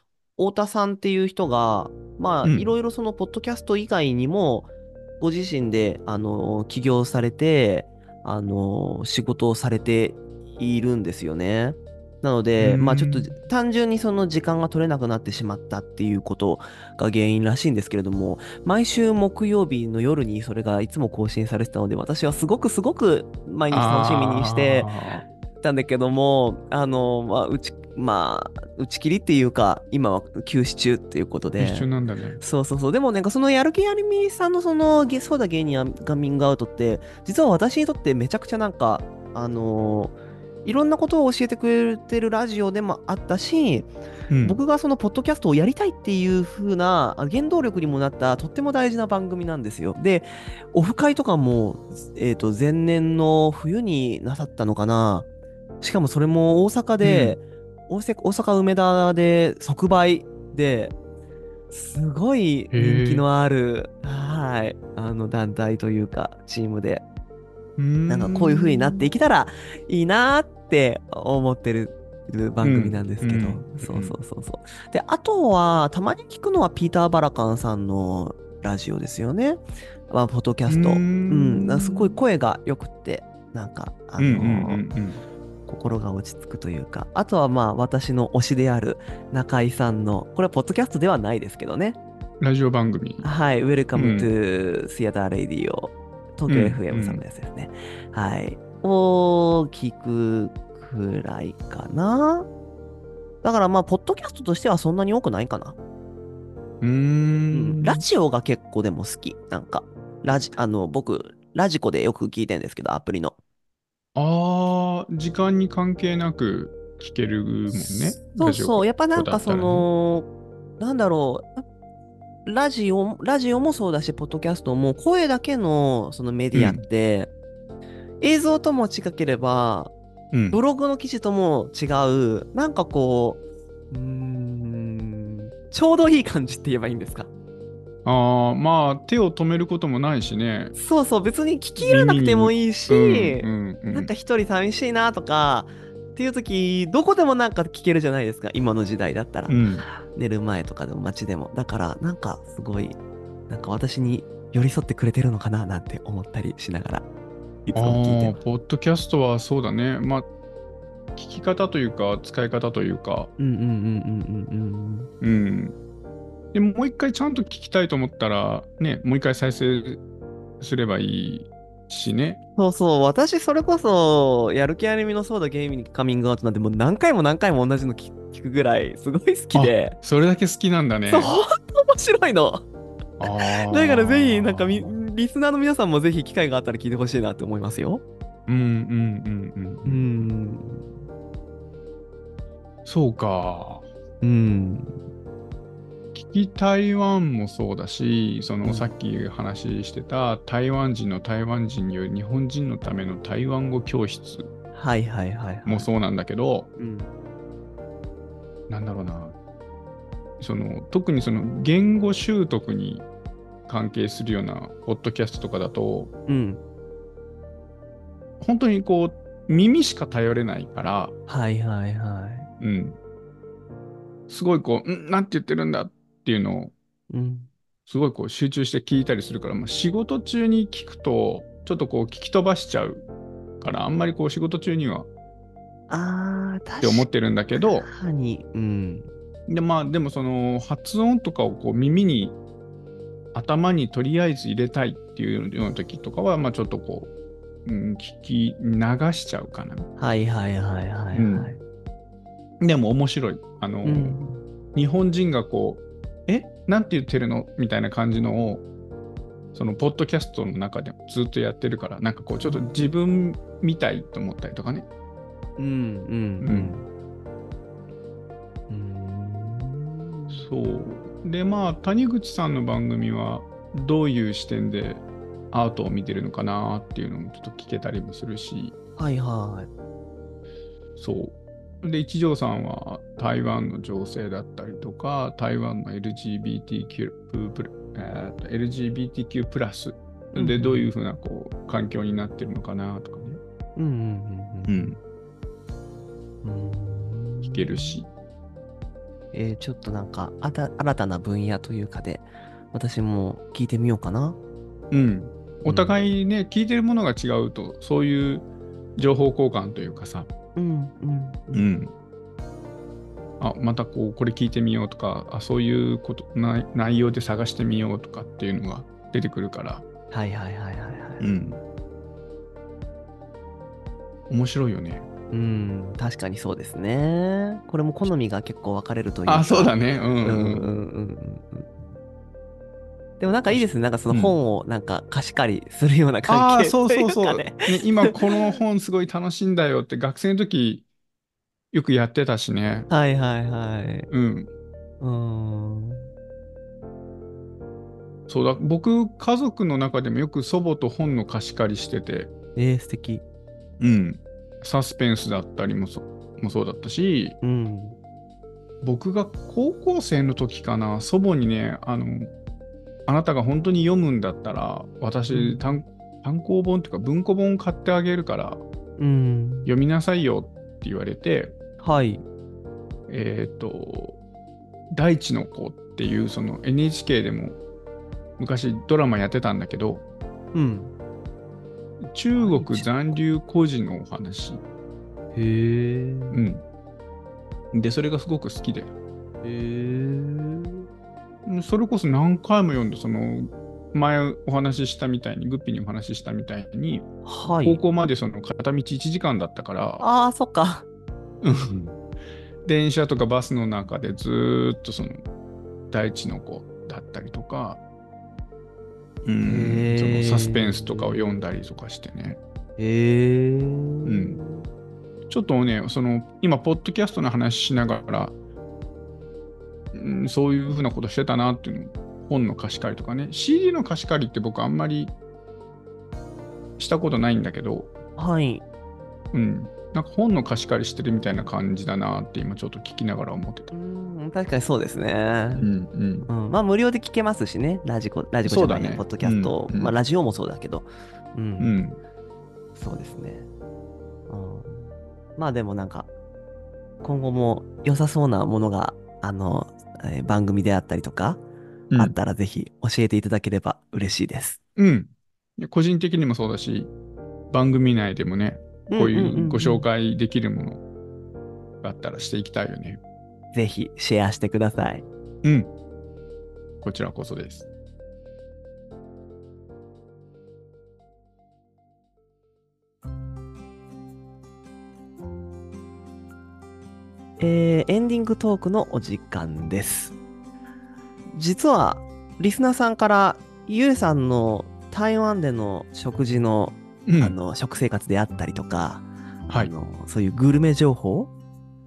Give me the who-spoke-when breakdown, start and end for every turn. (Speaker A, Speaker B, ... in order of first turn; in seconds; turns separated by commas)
Speaker A: 0.4-4.7, Speaker B: 2.4-2.7, Speaker A: 5.2-24.9, Speaker B: 12.6-13.3, Speaker B: 23.7-25.2, Speaker A: 25.6-31.9, Speaker B: 31.6-32.4, Speaker A: 32.4-55.3, Speaker B: 44.3-44.6, Speaker A: 55.8-60.9, Speaker B: 57.0-57.4, Speaker A: 61.7-67.0, Speaker B: 62.7-63.2, Speaker B: 67.8-69.1, Speaker A: 68.1-84.8, Speaker B: 72.6-74.2, Speaker B: 80.7-82.2, Speaker B: 84.2-85.2, Speaker A: 85.7-92.0, Speaker B: 92.4-93.2, Speaker A: 93.2-102.5, Speaker B: 93.9-94.3, Speaker B: 96.5-97.2, Speaker A: 103.4-105.8, Speaker B: 106.8-108.0, Speaker A: 107.5-113.3, Speaker B: 114.1-119.9, Speaker A: 117.7-120.3, Speaker A: 120.8-121.6, Speaker A: 122.5-127.3, Speaker B: 126.5-126.8, Speaker A: 128.2-129.9, Speaker B: 130.3-130.6, Speaker A: 130.5-133.4, Speaker A: 133.9-137.3, Speaker B: 138.0-140.7, Speaker A: 140.7-153.0, Speaker B: 141.8-144.1, Speaker B: 149.5-149.8, Speaker A: 153.5-157.1, Speaker A: 157.6-158.3, Speaker B: 157.7-160.3, Speaker B: 161.2-163.3, Speaker A: 163.4-165.1, Speaker B: 165.2-165.8, Speaker B: 166.5-170.0, Speaker B: 170.6-172.4, Speaker A: 172.6-179.9, Speaker B: 179.5-181.3, Speaker A: 181.1-182.7, Speaker B: 183.2-184.9, Speaker A: 183.2-188.0, Speaker B: 188.5-190.2, Speaker A: 189.8-190.9, Speaker B: 192.8-193.9, Speaker A: 194.2-194.9, Speaker B: 196.1-204.5, Speaker A: 198.6-198.9, Speaker A: 204.7-205.9, Speaker B: 205.7-206.7, Speaker A: 206.8-207.1, Speaker B: 208.7-209.4, Speaker B: 210.4-213.1, Speaker B: 213.7-216.1, Speaker A: 216.3-216.6, Speaker B: 218.4-221.1, Speaker A: 221.3-222.5, Speaker B: 222.6-223.0, Speaker B: 224.3-226.7, Speaker A: 227.1-227.5, Speaker B: 227.9-233.1, Speaker B: 233.6-235.1, Speaker A: 235.9-239.1, Speaker B: 236.8-237.9, Speaker B: 239.5-242.4, Speaker B: 243.3-247.1, Speaker B: 247.6-249.9, Speaker A: 250.0-251.6, Speaker B: 251.1-251.5, Speaker B: 252.6-258.6, Speaker A: 253.8-254.4, Speaker B: 259.5-264.9, Speaker A: 262.4-262.9, Speaker A: 265.6-266.9, Speaker B: 266.4-266.7, Speaker A: 268.7-270.5, Speaker B: 270.3-278.7, Speaker A: 279.0-279.7, Speaker B: 281.0-293.4, Speaker A: 290.3-290.9, Speaker A: 293.8-295.0, Speaker B: 294.7-295.0, Speaker A: 296.4-298.1, Speaker B: 297.4-298.1, Speaker A: 299.3-304.4, Speaker B: 304.9-310.3, Speaker A: 305.7-305.9, Speaker A: 310.6-311.7, Speaker B: 311.5-311.9, Speaker B: 313.4-319.8, Speaker A: 320.1-321.5, Speaker B: 321.2-321.6, Speaker B: 324.3-325.1, Speaker A: 325.3-331.8, Speaker B: 329.2-330.7, Speaker A: 333.2-338.6, Speaker B: 333.5-334.4, Speaker B: 336.3-340.8, Speaker B: 341.7-342.9, Speaker A: 342.9-344.1, Speaker B: 344.1-344.5, Speaker A: 345.0-346.1, Speaker B: 348.3-352.3, Speaker A: 352.6-353.2, Speaker B: 353.8-357.4, Speaker A: 357.4-358.0, Speaker B: 358.8-362.3, Speaker B: 363.1-368.6, Speaker A: 365.3-365.8, Speaker A: 369.0-369.7, Speaker B: 369.6-371.5, Speaker A: 371.8-372.2, Speaker B: 373.1-374.2, Speaker B: 374.9-377.6, Speaker B: 378.4-380.0, Speaker A: 380.5-380.9, Speaker B: 382.0-384.6, Speaker A: 382.3-382.9, Speaker A: 385.3-386.4, Speaker B: 386.3-386.6, Speaker B: 387.7-388.9, Speaker A: 389.4-390.9, Speaker B: 391.4-397.1, Speaker A: 397.2-397.8, Speaker B: 397.6-400.0, Speaker A: 400.0-400.9, Speaker B: 401.4-402.0, Speaker B: 402.6-405.2, Speaker B: 405.9-407.8, Speaker B: 409.2-412.4, Speaker A: 409.4-411.4, Speaker A: 412.8-414.7, Speaker B: 414.1-414.4, Speaker B: 415.3-418.3, Speaker B: 419.9-425.1, Speaker B: 426.8-427.9, Speaker A: 428.2-428.6, Speaker B: 429.3-433.7, Speaker A: 433.7-435.7, Speaker B: 435.5-436.3, Speaker A: 436.3-441.8, Speaker B: 438.4-439.9, Speaker B: 441.6-442.0, Speaker A: 442.8-443.5, Speaker A: 444.3-446.1, Speaker A: 447.0-451.4, Speaker A: 452.0-454.6, Speaker B: 454.8-456.9, Speaker B: 457.5-460.8, Speaker A: 458.9-459.9, Speaker B: 461.8-463.0, Speaker A: 463.5-465.1, Speaker B: 465.4-465.7, Speaker B: 466.8-467.7, Speaker A: 477.4-480.1, Speaker A: 481.3-491.3, Speaker B: 487.1-487.4